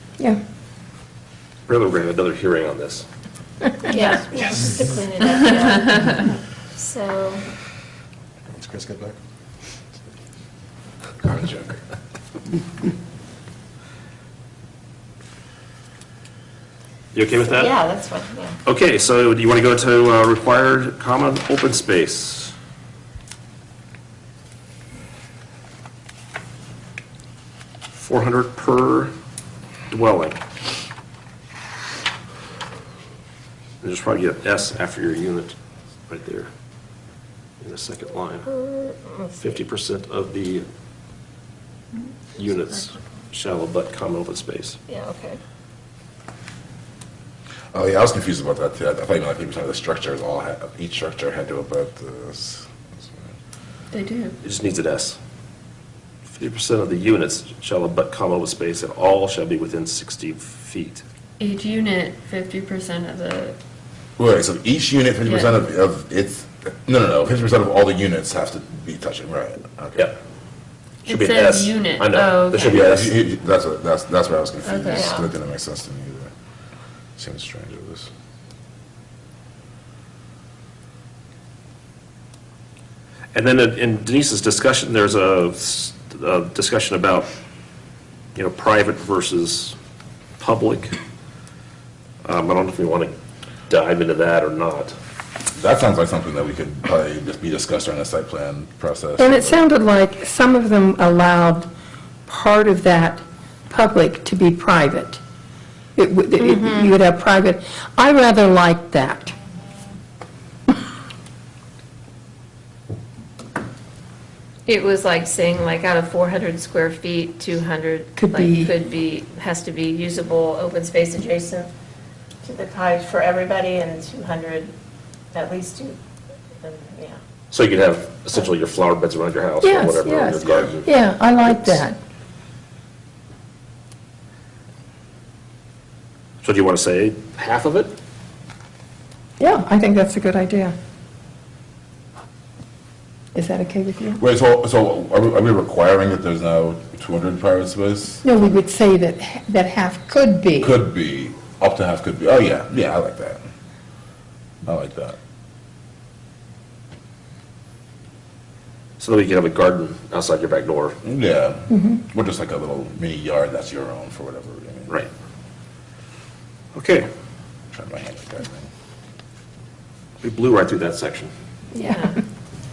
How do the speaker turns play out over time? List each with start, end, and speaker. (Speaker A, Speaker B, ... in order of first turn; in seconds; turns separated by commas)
Speaker A: 1.7-3.1, Speaker B: 3.9-7.4, Speaker C: 11.2-11.8, Speaker A: 17.1-17.8, Speaker B: 17.4-18.6, Speaker A: 18.6-22.5, Speaker A: 27.9-29.1, Speaker A: 29.9-30.4, Speaker A: 33.8-35.5, Speaker A: 36.1-36.5, Speaker A: 37.6-38.5, Speaker B: 38.5-39.4, Speaker A: 39.4-40.7, Speaker A: 42.4-44.8, Speaker B: 44.9-45.4, Speaker C: 47.7-53.3, Speaker D: 53.9-54.4, Speaker A: 54.4-55.2, Speaker A: 56.3-61.0, Speaker D: 61.4-63.6, Speaker C: 64.2-70.1, Speaker D: 65.2-65.5, Speaker A: 71.0-73.2, Speaker D: 71.1-72.8, Speaker C: 72.6-76.3, Speaker D: 74.6-75.2, Speaker B: 74.9-75.3, Speaker C: 77.2-78.1, Speaker A: 83.3-87.3, Speaker A: 88.3-89.8, Speaker A: 90.4-91.0, Speaker A: 92.2-93.2, Speaker A: 93.7-95.0, Speaker C: 95.5-99.6, Speaker E: 99.2-101.7, Speaker E: 102.3-105.2, Speaker E: 106.0-109.3, Speaker B: 106.4-106.9, Speaker B: 114.7-121.7, Speaker E: 118.2-118.7, Speaker B: 122.4-124.7, Speaker B: 125.3-126.0, Speaker B: 126.6-127.2, Speaker A: 127.5-130.9, Speaker E: 129.6-132.0, Speaker A: 131.5-131.8, Speaker A: 136.4-137.9, Speaker E: 139.4-140.7, Speaker E: 143.3-144.2, Speaker C: 144.2-148.2, Speaker E: 148.2-150.8, Speaker C: 150.6-153.4, Speaker C: 154.6-155.2, Speaker A: 159.0-161.0, Speaker C: 161.0-165.0, Speaker A: 166.7-167.1, Speaker C: 167.7-168.7, Speaker A: 170.2-171.3, Speaker B: 171.7-172.2, Speaker E: 171.8-172.2